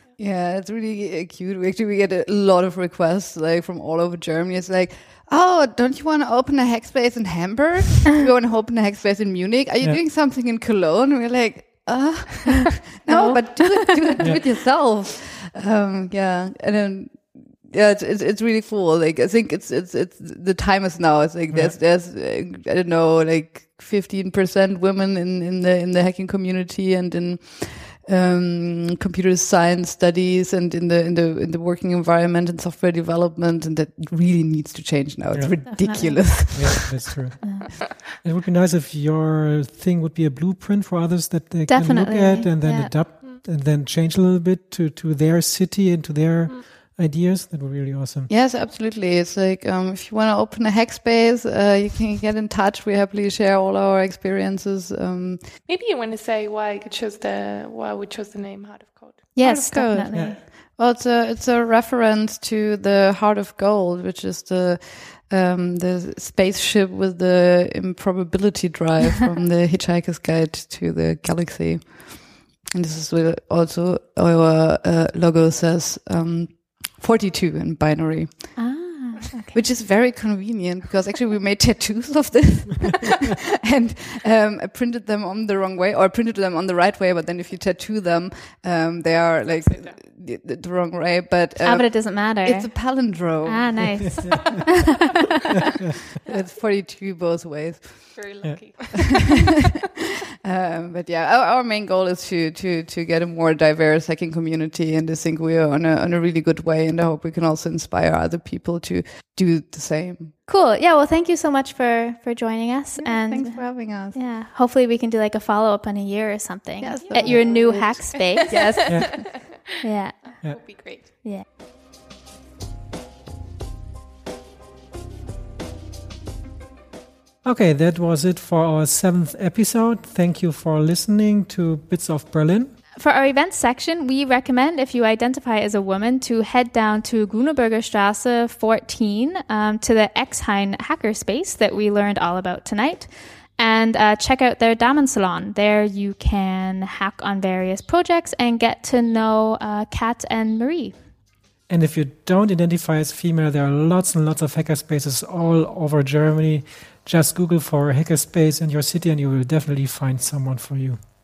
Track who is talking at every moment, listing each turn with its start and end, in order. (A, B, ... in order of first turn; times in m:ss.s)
0:00.2-0:37.0 A
0:13.1-0:14.1 B
0:35.3-0:48.3 C
0:35.7-0:36.5 B
0:37.4-0:37.7 B
0:41.7-0:43.3 B
0:48.3-0:55.5 A
0:55.7-0:59.4 D
0:59.4-1:00.4 B
0:59.4-1:19.0 A
1:18.6-1:19.7 B
1:19.5-1:34.3 A
1:29.6-1:30.0 D
1:31.6-1:34.8 B
1:34.2-1:34.6 C
1:36.3-1:38.3 A
1:38.1-1:39.5 D
1:38.4-1:38.8 C
1:39.1-1:39.5 A
1:40.4-1:50.3 A
1:50.5-2:01.4 B
1:53.0-1:54.2 A
1:56.8-1:59.2 A
1:57.1-1:59.4 D
2:00.4-2:01.1 D
2:07.4-2:12.7 C
2:13.0-2:31.1 B
2:31.7-2:41.0 C